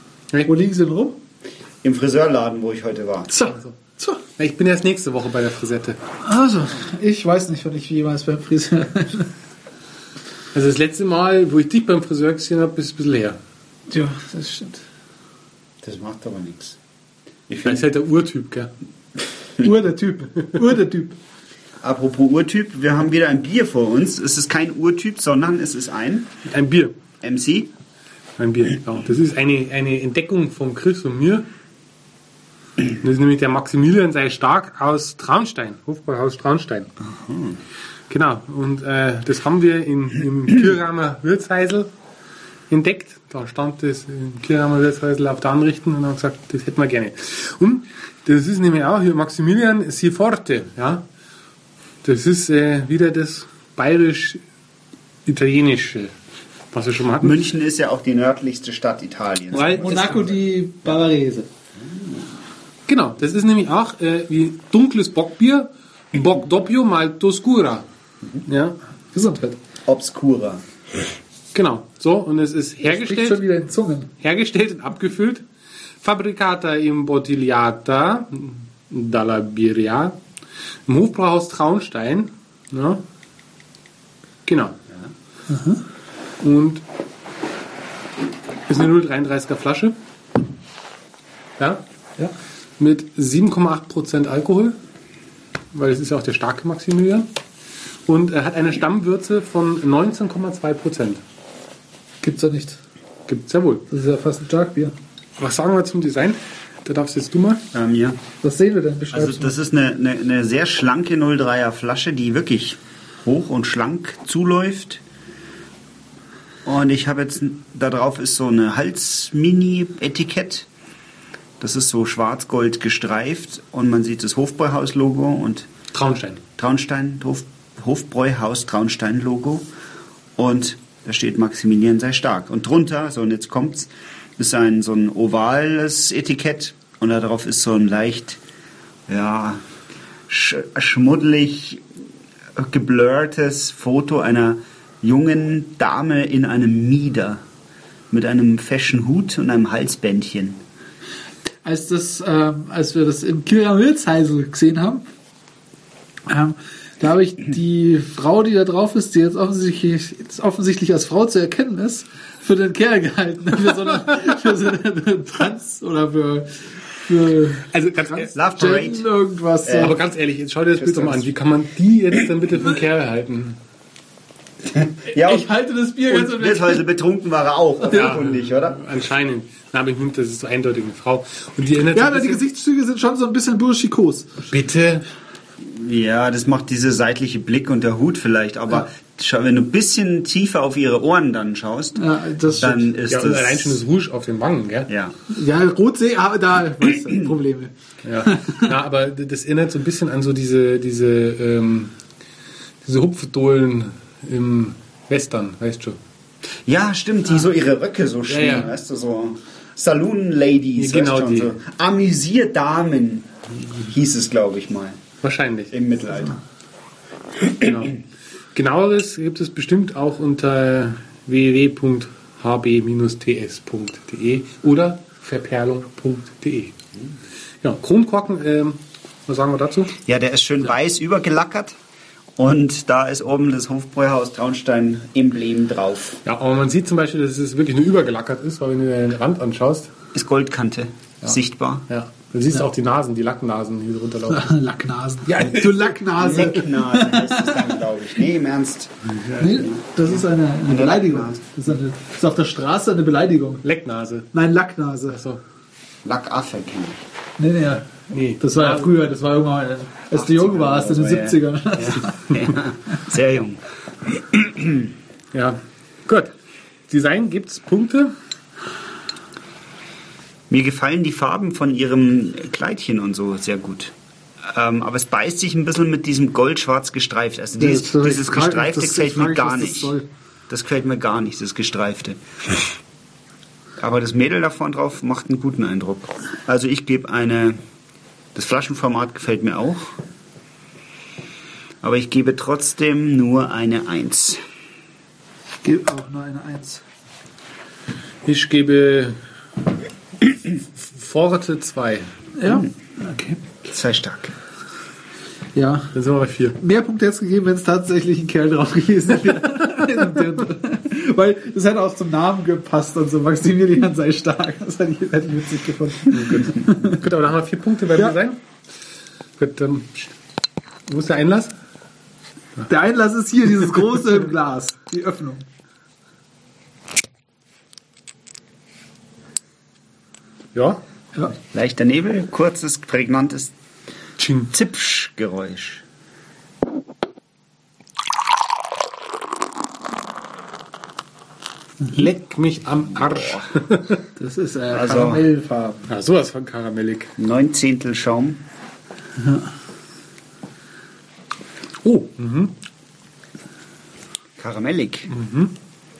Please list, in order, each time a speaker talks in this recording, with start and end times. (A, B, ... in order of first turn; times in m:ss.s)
0:00.4-0:01.2 A
0:01.8-0:03.4 B
0:03.4-0:06.0 C
0:06.2-0:09.3 A
0:10.5-0:13.4 C
0:13.9-0:14.8 A
0:15.8-0:16.8 B
0:17.5-0:17.8 B
0:17.6-0:18.7 C
0:19.6-0:21.1 A
0:21.8-0:26.3 B
0:26.4-0:26.9 C
0:27.2-0:27.7 B
0:28.4-0:31.4 C
0:33.0-0:36.9 C
0:37.0-0:37.6 B
0:38.1-0:41.9 C
0:42.7-0:51.0 C
0:52.0-0:54.4 C
0:55.2-0:56.1 C
0:56.7-0:57.5 C
0:57.2-1:00.3 B
0:59.5-1:00.3 C
0:59.7-1:01.5 A
1:02.9-1:07.8 C
1:08.4-1:08.8 C
1:09.1-1:09.6 A
1:09.9-1:10.6 B
1:11.5-1:13.4 C
1:12.8-1:14.1 A
1:14.2-1:15.4 C
1:16.0-1:20.2 C
1:20.9-1:23.0 C
1:24.4-1:24.8 C
1:25.5-1:25.8 A
1:26.4-1:26.8 C
1:28.7-1:29.9 C
1:31.6-1:31.8 C
1:32.8-1:34.8 C
1:35.7-1:37.3 C
1:38.1-1:41.2 C
1:42.2-1:42.8 A
1:43.3-1:43.8 C
1:43.9-1:44.9 A
1:45.4-1:47.6 C
1:47.7-1:48.2 B
1:48.4-1:49.6 A
1:49.1-1:55.0 B
1:56.6-2:00.7 B
2:01.6-2:05.7 B
2:05.9-2:06.4 C
2:06.6-2:09.7 B
2:10.4-2:18.4 B
2:19.1-2:19.6 B
2:20.3-2:21.8 B
2:22.6-2:27.4 B
2:28.1-2:30.6 B
2:31.6-2:35.0 A
2:36.3-2:46.5 A
2:47.0-2:50.0 A
2:47.7-2:48.3 C
2:48.3-2:49.0 B
2:49.6-2:50.0 B
2:49.8-2:53.6 C
2:50.9-2:51.2 B
2:54.9-2:55.5 B
2:55.2-2:56.8 A
2:56.0-2:58.8 B
2:57.8-2:58.1 A
2:57.9-3:02.4 C
3:01.9-3:04.5 A
3:04.5-3:05.0 C
3:05.6-3:13.8 B
3:12.0-3:12.9 A
3:13.1-3:14.9 C
3:14.9-3:15.2 B
3:15.3-3:17.7 A
3:18.0-3:21.9 C
3:18.2-3:18.7 A
3:22.8-3:26.0 C
3:26.6-3:35.0 B
3:28.3-3:28.7 C
3:30.8-3:31.5 C
3:35.2-3:35.7 C
3:35.7-3:36.4 B
3:37.5-3:38.0 C
3:38.5-3:46.7 C
3:47.6-3:49.9 C
3:50.0-3:51.8 B
3:52.4-3:56.2 B
3:56.2-3:59.9 C
4:00.1-4:01.8 B
4:01.9-4:04.5 C
4:04.3-4:07.7 A
4:05.2-4:06.6 C
4:06.2-4:09.9 B
4:09.3-4:13.6 A
4:10.6-4:11.4 B
4:13.6-4:14.3 C
4:14.3-4:15.2 A
4:15.1-4:15.4 C
4:16.0-4:17.0 B
4:17.4-4:22.2 A
4:18.1-4:18.9 C
4:20.1-4:24.9 B
4:25.3-4:26.3 C
4:26.9-4:28.1 C
4:30.5-4:33.9 B
4:34.5-4:40.0 B
4:37.6-4:40.0 A
4:40.5-4:42.2 B
4:43.8-4:47.6 B
4:48.3-4:49.9 B
4:51.8-4:54.4 B
4:55.6-4:56.8 A
4:58.2-4:59.2 C
5:00.6-5:02.1 C
5:02.4-5:03.4 A
5:03.7-5:04.3 B
5:05.5-5:05.9 A
5:05.9-5:06.6 C
5:06.6-5:17.0 A
5:16.1-5:18.4 C
5:19.4-5:20.1 C
5:20.9-5:21.5 C
5:22.7-5:25.4 A
5:30.5-5:30.8 C
5:31.5-5:33.5 B
5:34.2-5:34.5 C
5:34.5-5:35.8 B
5:41.9-5:44.0 C
5:42.9-5:43.5 B
5:44.2-5:45.9 A
5:44.7-5:45.3 B
5:45.9-5:47.1 C
5:47.2-5:48.4 B
5:49.2-5:49.5 A
5:51.8-5:52.5 C
5:54.4-5:55.1 B
5:55.1-5:55.5 C